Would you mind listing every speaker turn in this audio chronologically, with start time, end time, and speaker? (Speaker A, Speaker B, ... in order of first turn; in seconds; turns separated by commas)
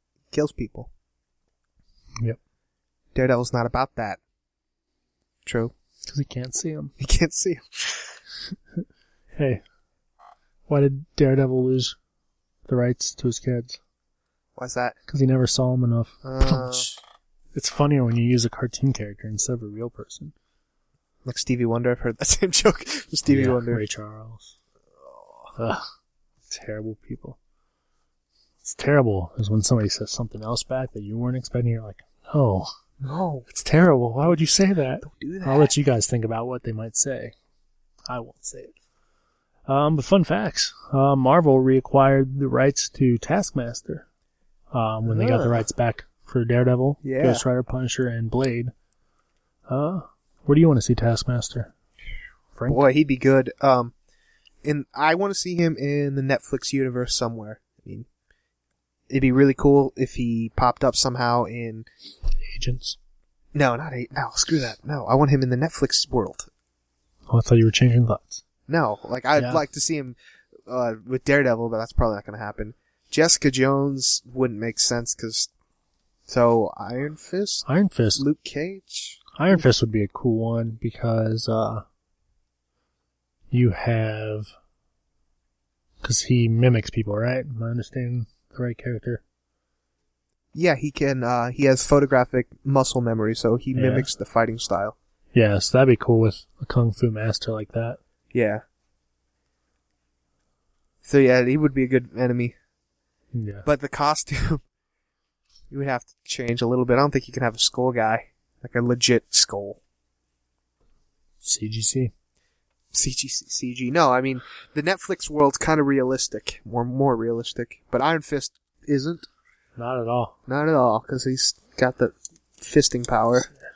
Speaker A: 0.3-0.9, Speaker A: 3.1-4.2, Speaker A: 5.5-5.7, Speaker B: 6.0-6.9, Speaker A: 7.0-8.2, Speaker B: 9.3-9.6, Speaker B: 10.7-11.9, Speaker B: 12.7-13.8, Speaker A: 14.6-14.9, Speaker B: 15.1-17.0, Speaker A: 16.2-16.9, Speaker B: 17.5-20.3, Speaker A: 21.2-23.8, Speaker B: 23.3-24.5, Speaker A: 25.1-25.5, Speaker B: 25.6-25.8, Speaker B: 26.5-27.4, Speaker B: 28.6-32.7, Speaker A: 33.0-33.5, Speaker B: 33.5-37.3, Speaker A: 35.0-35.7, Speaker B: 38.1-38.7, Speaker B: 39.7-44.0, Speaker B: 44.7-48.7, Speaker A: 45.1-45.6, Speaker A: 47.0-47.4, Speaker B: 49.7-51.7, Speaker B: 52.5-52.8, Speaker A: 52.7-53.9, Speaker A: 54.6-58.1, Speaker A: 59.1-61.9, Speaker B: 62.4-63.0, Speaker A: 63.5-66.5, Speaker B: 67.3-68.4, Speaker A: 68.7-70.2, Speaker B: 69.3-69.6, Speaker A: 70.7-75.5, Speaker A: 76.3-77.6, Speaker B: 77.7-78.2, Speaker A: 78.2-79.6, Speaker B: 79.3-81.8, Speaker B: 83.5-84.5, Speaker B: 86.0-89.2, Speaker A: 90.5-94.9, Speaker B: 93.7-94.1, Speaker B: 95.3-98.0, Speaker A: 98.3-98.6, Speaker A: 101.0-102.5, Speaker B: 103.3-103.7, Speaker A: 103.6-104.6, Speaker A: 105.7-109.8, Speaker B: 111.4-112.1, Speaker A: 112.9-119.3, Speaker B: 119.8-120.3, Speaker A: 120.5-123.5